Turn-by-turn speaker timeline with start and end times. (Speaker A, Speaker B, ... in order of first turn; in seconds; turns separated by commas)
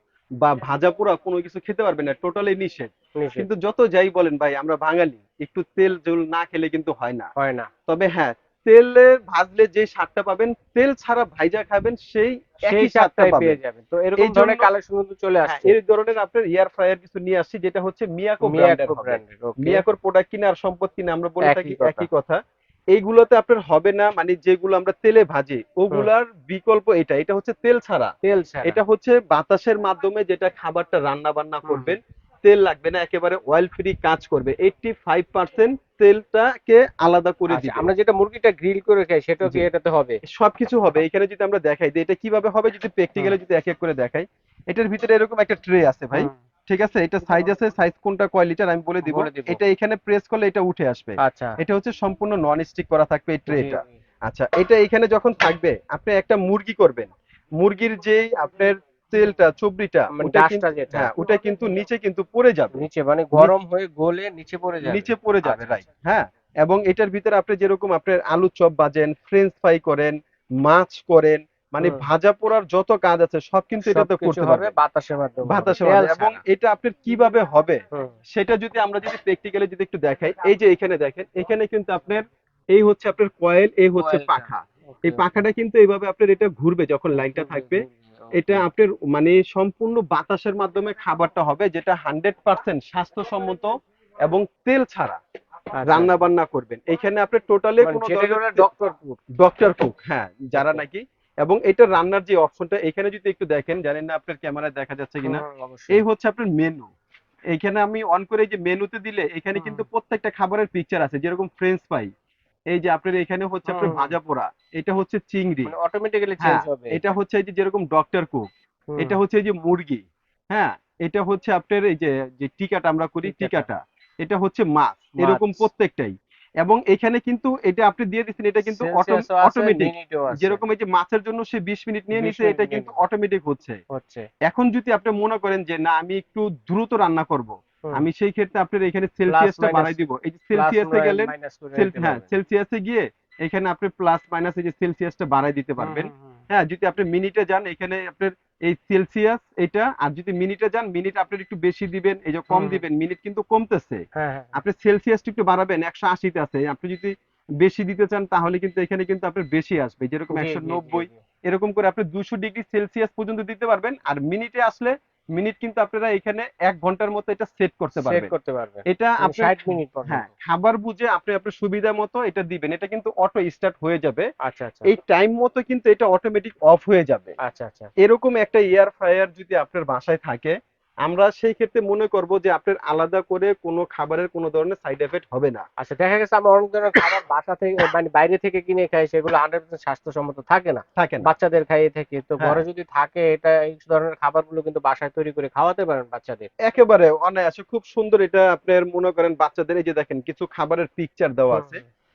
Speaker A: 0.4-7.3, Speaker B: 3.2-3.5, Speaker B: 7.4-7.7, Speaker A: 7.9-13.6, Speaker B: 12.7-15.7, Speaker A: 14.2-14.7, Speaker A: 15.4-22.4, Speaker B: 18.4-19.8, Speaker B: 21.4-22.1, Speaker A: 22.9-28.1, Speaker B: 28.2-28.8, Speaker A: 28.6-37.9, Speaker B: 31.6-32.0, Speaker B: 37.5-40.2, Speaker A: 40.3-62.8, Speaker B: 49.0-49.6, Speaker B: 51.2-51.5, Speaker B: 53.5-53.9, Speaker B: 60.1-61.1, Speaker B: 62.8-65.8, Speaker A: 64.8-74.7, Speaker B: 71.8-72.0, Speaker B: 73.9-76.4, Speaker A: 75.5-82.2, Speaker A: 82.7-93.7, Speaker B: 84.0-85.3, Speaker B: 87.1-88.7, Speaker A: 94.2-95.2, Speaker B: 95.8-96.2, Speaker A: 95.9-98.6, Speaker B: 97.8-99.2, Speaker A: 99.4-106.9, Speaker B: 100.5-100.8, Speaker B: 105.2-106.0, Speaker A: 107.5-112.1, Speaker B: 109.5-109.8, Speaker A: 112.7-115.7, Speaker B: 113.7-114.2, Speaker B: 115.7-117.0, Speaker A: 116.4-118.5, Speaker B: 118.9-119.2, Speaker A: 119.0-133.8, Speaker B: 123.2-123.7, Speaker B: 125.2-125.6, Speaker B: 128.7-130.6, Speaker B: 132.1-133.0, Speaker B: 133.9-134.2, Speaker A: 134.5-154.0, Speaker B: 139.3-140.0, Speaker B: 140.5-142.3, Speaker B: 145.8-146.4, Speaker B: 152.5-152.8, Speaker B: 154.1-154.5, Speaker A: 154.6-168.3, Speaker B: 160.3-161.2, Speaker B: 167.9-170.3, Speaker A: 168.9-174.3, Speaker B: 174.4-174.9, Speaker A: 174.9-177.3, Speaker B: 177.4-177.9, Speaker A: 178.0-180.5, Speaker A: 181.0-185.6, Speaker B: 185.8-196.5, Speaker A: 191.0-191.3, Speaker A: 196.7-201.8, Speaker B: 201.5-201.8